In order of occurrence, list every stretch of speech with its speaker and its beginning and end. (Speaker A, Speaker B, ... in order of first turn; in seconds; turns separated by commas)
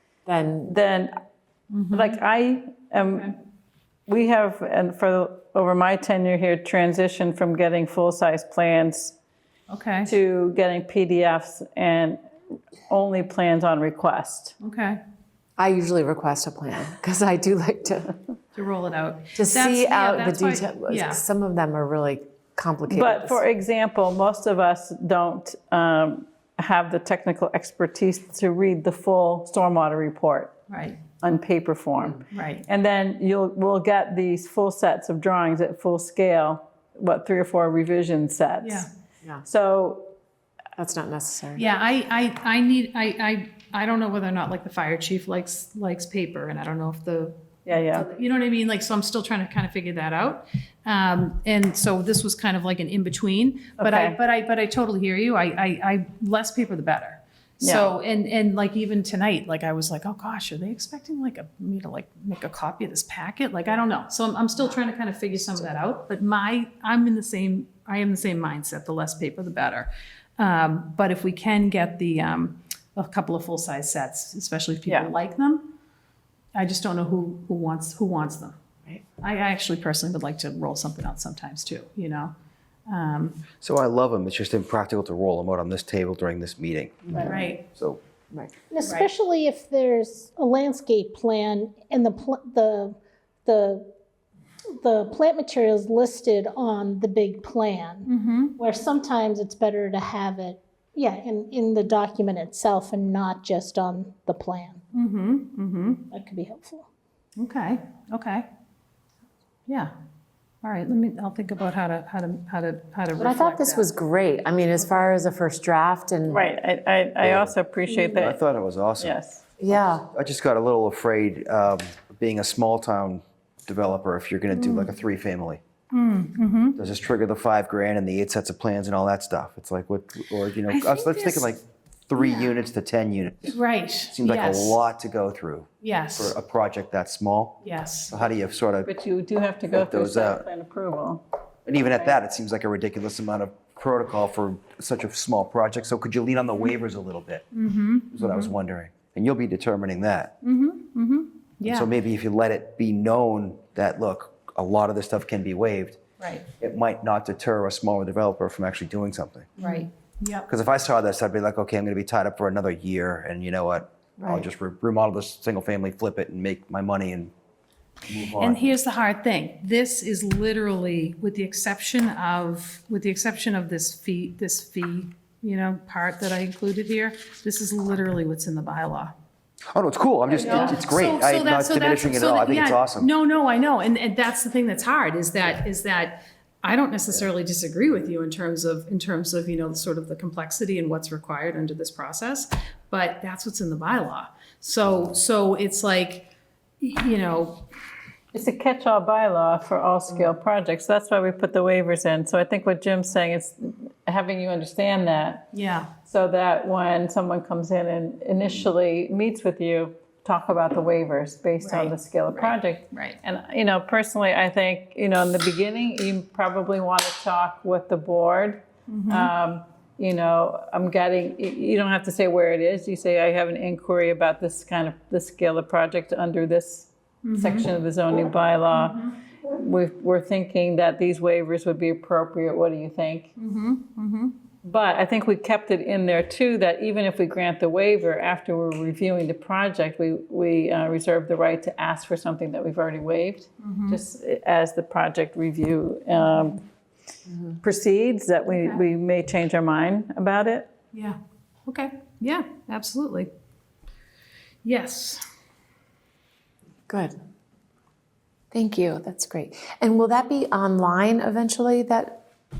Speaker A: 0.2-0.7, Speaker B: 0.7-1.1, Speaker C: 1.7-2.2, Speaker B: 1.9-3.3, Speaker C: 3.0-3.3, Speaker B: 4.1-9.1, Speaker C: 9.7-10.1, Speaker B: 10.1-12.2, Speaker B: 12.8-14.5, Speaker C: 14.6-15.0, Speaker A: 15.6-18.2, Speaker C: 18.5-21.2, Speaker A: 19.4-23.4, Speaker B: 22.9-30.5, Speaker C: 30.7-31.0, Speaker B: 31.2-38.9, Speaker C: 32.3-32.6, Speaker C: 38.6-38.9, Speaker B: 39.4-40.1, Speaker A: 40.8-41.6, Speaker C: 41.5-75.7, Speaker B: 47.6-48.1, Speaker B: 53.8-54.2, Speaker B: 57.6-57.9, Speaker C: 76.5-78.5, Speaker C: 79.2-82.3, Speaker C: 82.9-83.4, Speaker D: 83.6-88.0, Speaker A: 87.1-87.4, Speaker C: 87.2-87.6, Speaker E: 88.7-92.9, Speaker C: 88.8-89.1, Speaker E: 93.4-93.9, Speaker E: 94.8-104.8, Speaker C: 98.0-98.5, Speaker C: 104.9-106.0, Speaker E: 106.1-106.9, Speaker C: 107.4-108.5, Speaker C: 109.7-109.9, Speaker C: 110.6-113.9, Speaker A: 113.2-116.4, Speaker B: 116.3-118.4, Speaker D: 117.2-117.5, Speaker D: 118.1-119.1, Speaker B: 119.0-119.4, Speaker A: 119.6-120.0, Speaker D: 119.7-125.6, Speaker C: 124.5-124.9, Speaker C: 125.9-126.8, Speaker D: 126.8-133.5, Speaker C: 130.7-131.5, Speaker C: 132.1-132.5, Speaker C: 133.5-134.8, Speaker D: 134.1-137.6, Speaker C: 135.8-136.3, Speaker C: 137.6-138.1, Speaker D: 138.1-138.9, Speaker B: 138.8-141.2, Speaker D: 139.7-140.4, Speaker D: 141.7-147.4, Speaker C: 147.5-148.5, Speaker D: 148.1-150.3, Speaker C: 150.4-151.9, Speaker D: 151.6-156.0, Speaker C: 156.2-156.4, Speaker D: 156.6-159.5, Speaker C: 159.6-160.5, Speaker D: 160.5-167.3, Speaker C: 164.2-164.4, Speaker D: 168.1-168.6, Speaker C: 168.4-179.1, Speaker D: 179.7-183.1, Speaker C: 180.3-196.3, Speaker C: 196.8-197.6, Speaker B: 198.3-205.5, Speaker C: 205.5-205.9, Speaker B: 206.0-233.3, Speaker C: 211.6-213.2, Speaker C: 218.9-219.3, Speaker C: 227.2-227.7, Speaker C: 228.7-229.1, Speaker C: 233.4-234.3, Speaker B: 234.6-246.6, Speaker C: 243.6-244.0, Speaker A: 247.3-247.6, Speaker B: 247.6-250.7, Speaker C: 250.9-253.3, Speaker C: 254.6-255.2, Speaker A: 256.9-257.1, Speaker A: 258.5-262.2